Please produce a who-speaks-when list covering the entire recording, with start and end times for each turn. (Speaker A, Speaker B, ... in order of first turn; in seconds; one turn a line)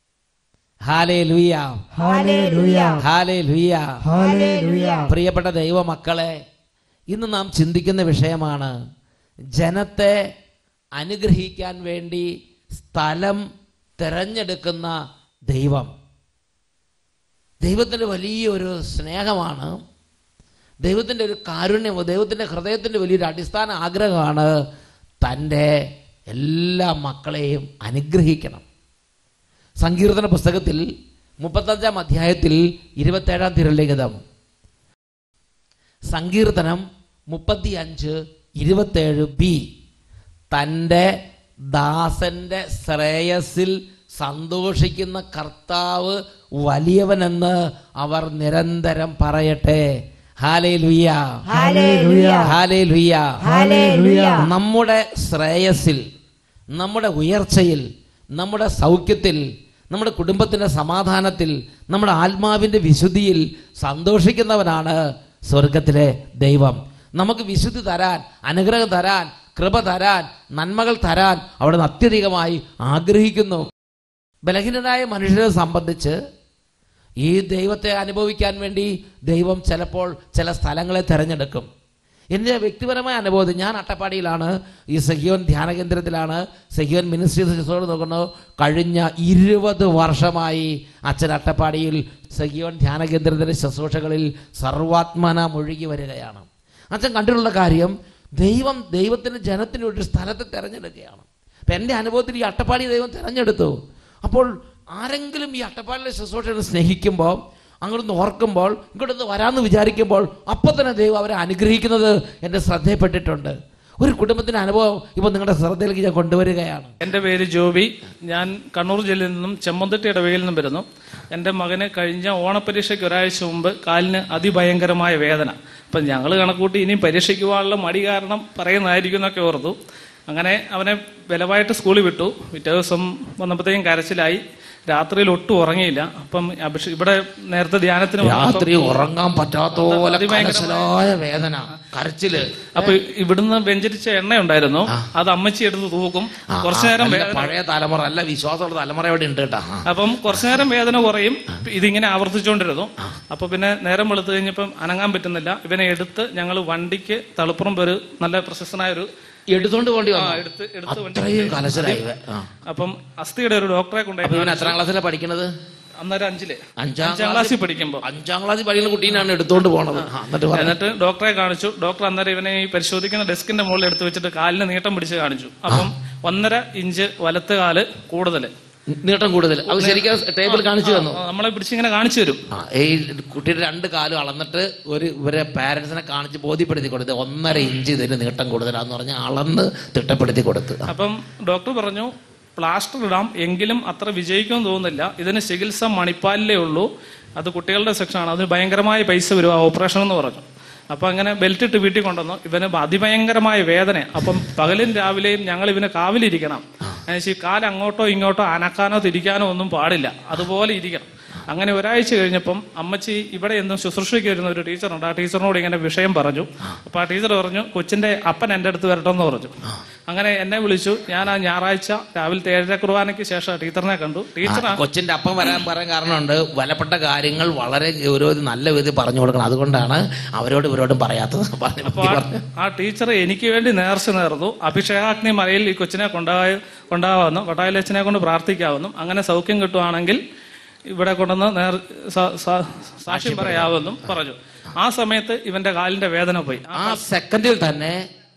Speaker A: 0.9-1.8
Speaker B: 2.0-3.0
Speaker A: 3.0-4.0
Speaker B: 4.1-5.1
Speaker A: 5.1-6.3
Speaker A: 7.1-8.7
Speaker A: 9.6-10.2
Speaker A: 11.0-13.4
Speaker A: 14.0-14.9
Speaker A: 15.5-15.9
Speaker A: 17.6-19.8
Speaker A: 20.8-24.5
Speaker A: 25.2-25.7
Speaker A: 26.3-28.6
Speaker A: 29.8-30.9
Speaker A: 31.4-34.2
Speaker A: 36.1-39.6
Speaker A: 40.5-41.1
Speaker A: 41.7-49.9
Speaker A: 50.4-51.2
Speaker B: 51.5-52.5
Speaker A: 52.4-53.4
Speaker B: 53.4-54.4
Speaker A: 54.4-56.0
Speaker A: 56.7-73.7
Speaker A: 74.5-76.2
Speaker A: 77.2-81.7
Speaker A: 82.3-117.0
Speaker C: 117.0-129.8
Speaker C: 130.3-139.0
Speaker A: 138.2-143.0
Speaker C: 139.8-140.9
Speaker C: 142.8-147.5
Speaker A: 146.5-149.9
Speaker C: 149.9-159.1
Speaker A: 159.5-162.5
Speaker C: 160.2-162.0
Speaker C: 162.7-164.8
Speaker A: 164.2-165.5
Speaker C: 166.0-168.0
Speaker A: 166.8-170.8
Speaker C: 170.0-178.5
Speaker A: 178.9-181.2
Speaker C: 179.7-182.4
Speaker A: 182.5-190.9
Speaker C: 190.9-196.9
Speaker C: 197.4-219.6
Speaker C: 220.1-224.8
Speaker A: 224.5-232.4
Speaker C: 231.9-240.2
Speaker C: 240.9-247.0
Speaker A: 243.1-244.1
Speaker A: 246.8-248.0